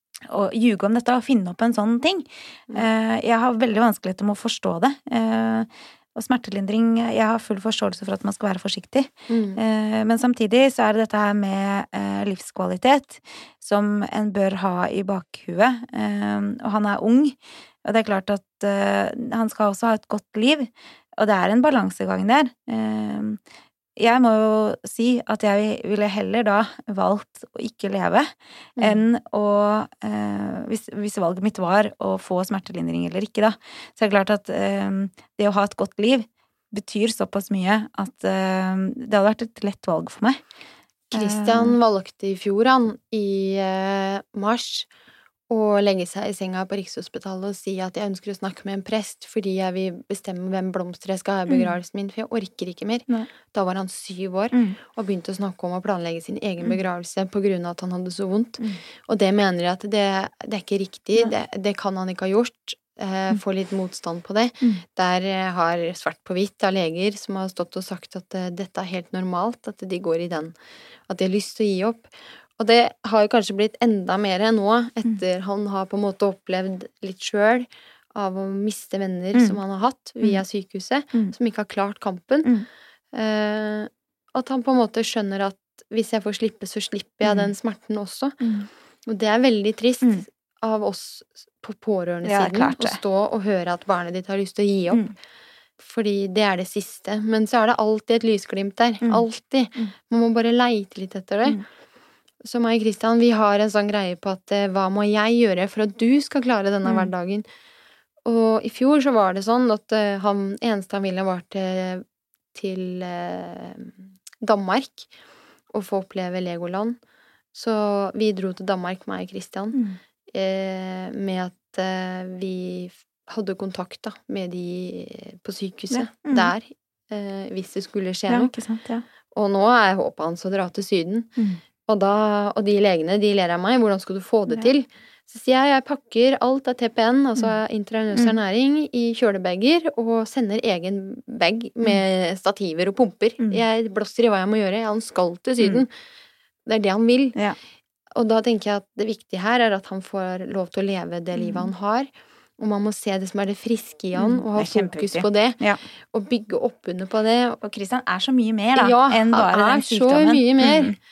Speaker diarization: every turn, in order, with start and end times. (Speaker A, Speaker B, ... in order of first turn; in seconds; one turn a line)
Speaker A: 0.3-23.4
Speaker B: 9.3-9.6
Speaker A: 24.0-40.4
Speaker A: 41.1-41.8
Speaker B: 41.1-44.9
Speaker B: 45.5-70.5
Speaker A: 51.5-51.7
Speaker A: 54.5-54.8
Speaker B: 71.1-82.5
Speaker B: 83.1-88.4
Speaker A: 87.2-87.5
Speaker A: 88.4-88.7
Speaker B: 89.1-95.1
Speaker A: 92.2-93.0
Speaker B: 95.8-101.6
Speaker B: 102.4-107.5
Speaker B: 108.2-115.1
Speaker B: 115.7-117.0
Speaker B: 117.5-119.8
Speaker B: 120.3-128.5
Speaker A: 125.9-126.5
Speaker A: 128.3-129.1
Speaker B: 129.3-131.3
Speaker B: 131.9-145.9
Speaker B: 146.7-147.4
Speaker B: 148.2-155.6
Speaker A: 151.3-151.7
Speaker A: 154.2-155.8
Speaker B: 156.1-157.6
Speaker A: 157.6-161.0
Speaker B: 158.8-160.9